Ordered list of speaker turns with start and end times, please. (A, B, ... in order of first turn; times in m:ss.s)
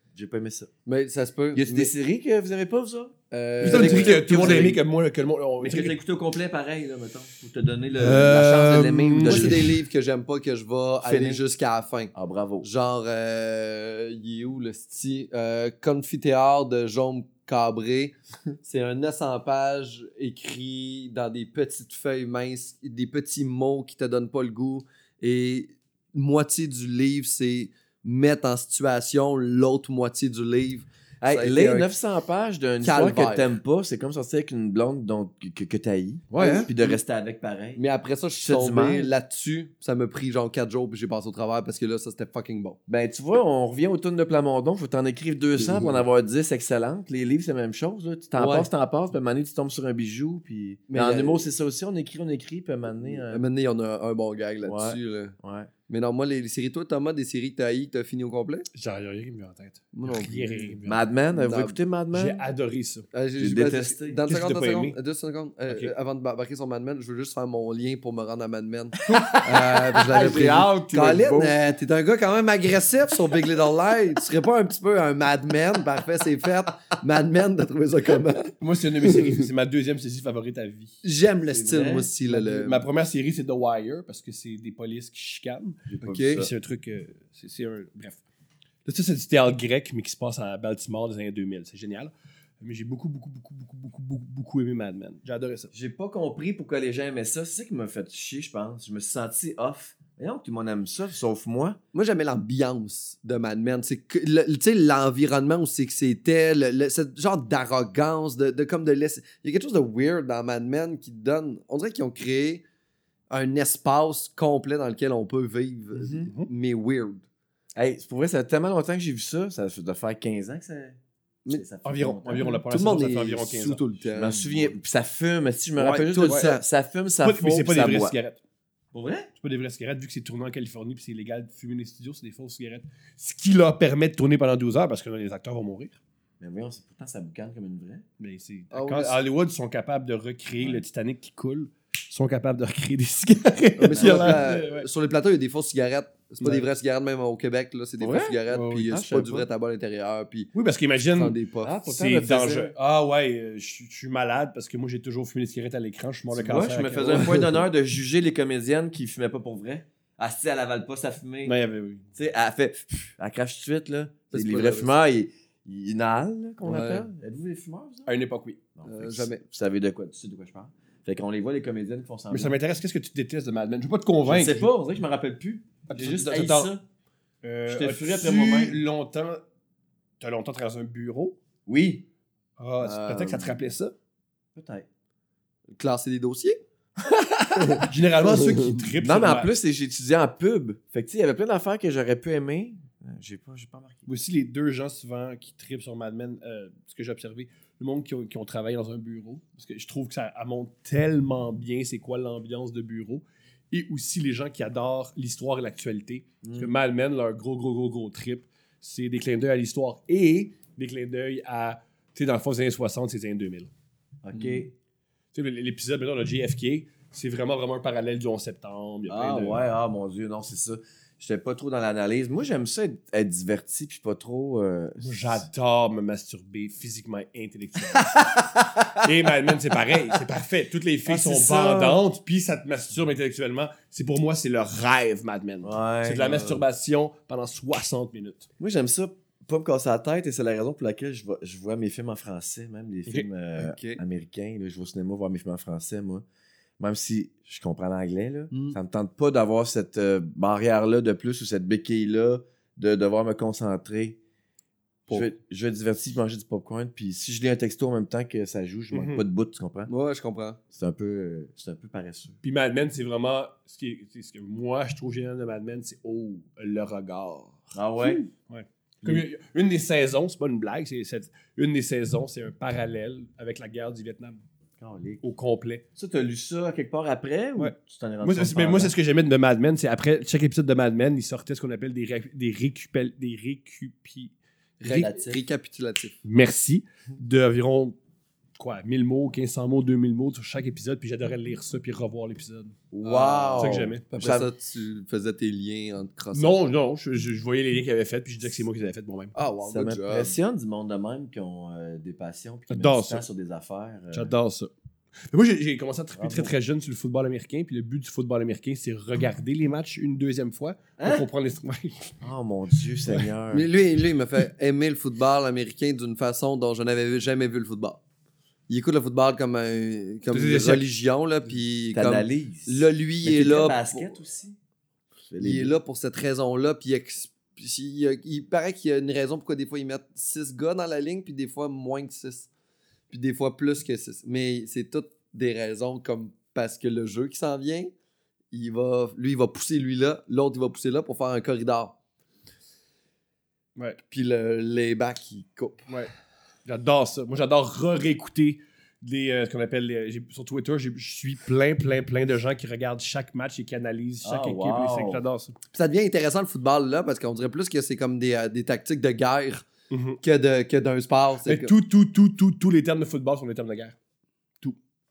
0:00.1-0:00.7 A
0:00.9-0:01.9 B
0:01.6-0:04.8 A
0:03.3-0:04.7 B
0:03.6-0:06.0 C
0:05.6-0:09.7 A
0:08.0-0:09.7 C
0:09.2-0:31.9 B
0:11.0-0:11.4 A
0:12.2-0:12.7 A
0:31.2-0:37.8 A
0:32.8-0:33.5 B
0:36.3-0:36.7 C
0:36.4-0:36.9 B
0:37.8-0:42.8 B
0:38.4-0:39.1 A
0:42.9-0:53.4 A
0:45.6-0:46.0 B
0:48.4-0:48.7 B
0:50.9-0:51.5 B
0:53.0-0:55.4 B
0:54.7-0:55.7 A
0:55.9-0:58.7 B
0:58.7-1:01.0 C
0:59.9-1:00.8 B
1:00.9-1:02.4 A
1:01.3-1:01.8 B
1:02.1-1:03.1 C
1:03.1-1:18.5 B
1:03.4-1:04.2 A
1:04.2-1:05.0 C
1:09.0-1:11.6 A
1:18.6-1:21.0 C
1:19.0-1:19.4 B
1:21.0-1:22.8 B
1:21.5-1:22.1 A
1:22.2-1:28.2 C
1:25.9-1:26.5 A
1:26.0-1:26.5 B
1:28.9-1:35.7 C
1:35.7-1:41.8 A
1:41.9-1:52.6 B
1:53.3-1:57.2 B
1:55.9-1:56.3 A
1:57.8-2:01.0 A
2:01.5-2:02.5 A
2:01.8-2:03.9 C
2:02.3-2:04.8 B
2:04.1-2:08.1 A
2:05.8-2:06.6 B
2:06.2-2:06.5 C
2:07.2-2:08.4 C
2:08.9-2:09.3 A
2:09.4-2:16.0 C
2:16.4-2:18.0 A
2:18.2-2:24.9 C
2:18.7-2:19.2 B
2:20.6-2:20.8 A
2:23.8-2:30.5 B
2:23.9-2:24.6 A
2:28.0-2:28.4 A
2:28.5-2:29.1 C
2:28.9-2:29.5 A
2:30.5-2:37.4 C
2:31.1-2:31.7 B
2:31.6-2:32.8 A
2:36.3-2:41.6 A
2:37.0-2:37.6 B
2:41.4-2:42.0 C
2:42.2-2:48.1 A
2:44.3-2:44.9 B
2:46.6-2:47.1 B
2:48.1-2:48.6 C
2:48.8-2:52.6 A
2:48.8-2:49.4 B
2:52.3-2:54.7 C
2:54.2-2:56.8 A
2:55.9-2:56.7 C
2:57.4-2:59.4 C
2:57.7-2:58.8 A
3:00.2-3:01.4 C
3:01.7-3:02.1 A
3:02.6-3:03.9 C
3:02.8-3:03.5 B
3:04.6-3:04.9 A
3:05.7-3:06.6 B
3:07.6-3:08.8 B
3:07.8-3:09.5 C
3:09.0-3:14.1 A
3:14.1-3:33.7 C
3:26.4-3:26.7 A
3:34.2-3:34.7 A
3:34.3-3:34.7 B
3:35.3-3:39.6 C
3:39.1-3:45.5 A
3:45.0-3:48.3 C
3:48.2-3:49.0 A
3:49.0-3:58.5 C
3:51.1-3:52.0 A
3:55.6-3:56.5 A
3:58.6-4:06.2 A
4:03.6-4:04.0 B
4:06.8-4:14.2 A
4:08.5-4:08.8 B
4:15.1-4:19.9 A
4:18.9-4:19.2 C
4:19.9-4:20.6 B
4:20.7-4:22.4 A
4:22.4-4:27.7 C
4:27.7-4:28.2 A
4:28.3-4:34.4 C
4:34.8-4:35.2 A
4:35.2-4:35.8 C
4:36.0-4:38.9 A
4:37.6-4:44.3 C
4:44.8-4:46.2 B
4:44.9-4:45.4 A
4:46.2-4:48.0 C
4:48.6-4:52.8 C
4:52.9-4:54.5 A
4:53.0-4:56.6 B
4:53.6-4:54.0 C
4:56.3-4:59.3 C
4:59.4-5:00.4 B
4:59.6-5:04.3 A
5:02.7-5:03.2 C
5:04.1-5:04.7 C
5:05.3-5:12.2 C
5:06.2-5:06.5 A
5:11.0-5:11.2 A
5:12.2-5:13.7 A
5:13.5-5:18.0 B
5:18.7-5:24.2 B
5:20.3-5:20.9 C
5:21.9-5:24.6 A
5:25.3-5:25.7 A
5:25.4-5:32.5 B
5:33.1-5:37.9 B
5:38.5-5:42.0 B
5:44.1-5:45.9 B
5:46.6-5:55.6 C
5:54.2-5:55.2 A
5:55.7-5:59.7 B
5:59.9-6:00.2 C
6:00.2-6:01.7 B
6:01.5-6:04.0 C